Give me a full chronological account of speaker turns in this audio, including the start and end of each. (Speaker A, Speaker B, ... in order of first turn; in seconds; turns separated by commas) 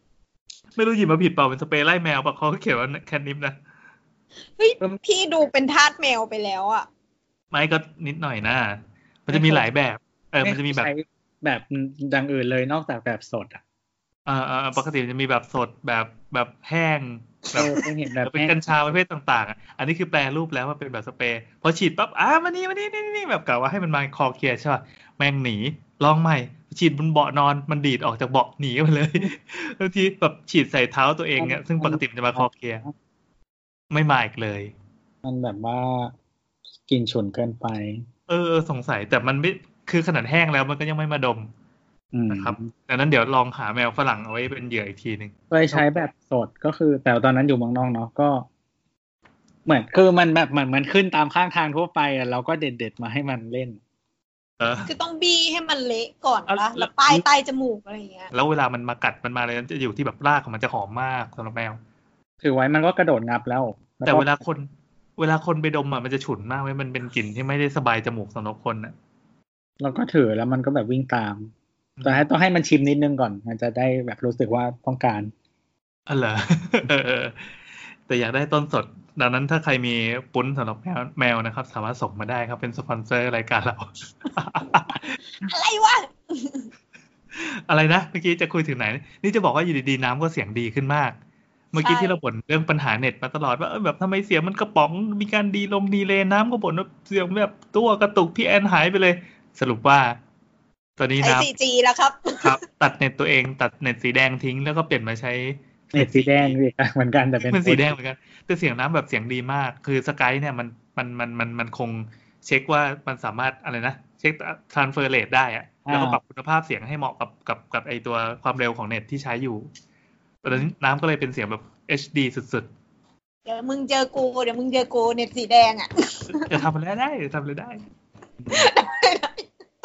Speaker A: 0.8-3.5, Speaker B: 4.6-6.9, Speaker A: 7.5-10.9, Speaker C: 9.3-9.7, Speaker C: 10.4-13.6, Speaker A: 14.2-17.7, Speaker C: 17.5-18.5, Speaker A: 18.2-32.8, Speaker C: 31.4-32.9, Speaker A: 33.9-34.7, Speaker C: 35.2-36.1, Speaker C: 36.9-38.0, Speaker A: 38.3-41.5, Speaker C: 42.1-42.7, Speaker A: 42.3-45.9, Speaker C: 45.5-48.5, Speaker C: 49.6-53.8, Speaker A: 54.6-54.9, Speaker B: 54.9-58.3, Speaker A: 56.5-57.2, Speaker A: 58.3-61.8, Speaker C: 62.4-64.4, Speaker A: 64.0-68.9, Speaker C: 69.8-71.5, Speaker A: 72.0-72.2, Speaker C: 72.0-75.3, Speaker A: 76.1-77.5, Speaker A: 78.1-85.2, Speaker B: 85.4-86.7, Speaker A: 87.3-91.1, Speaker A: 91.7-100.2, Speaker B: 91.8-92.2, Speaker A: 101.0-101.5, Speaker B: 101.2-102.6, Speaker A: 102.4-106.5, Speaker C: 105.9-108.0, Speaker A: 107.4-119.7, Speaker C: 115.9-116.2, Speaker A: 120.4-122.7, Speaker B: 123.5-126.6, Speaker A: 126.3-127.8, Speaker B: 128.5-129.5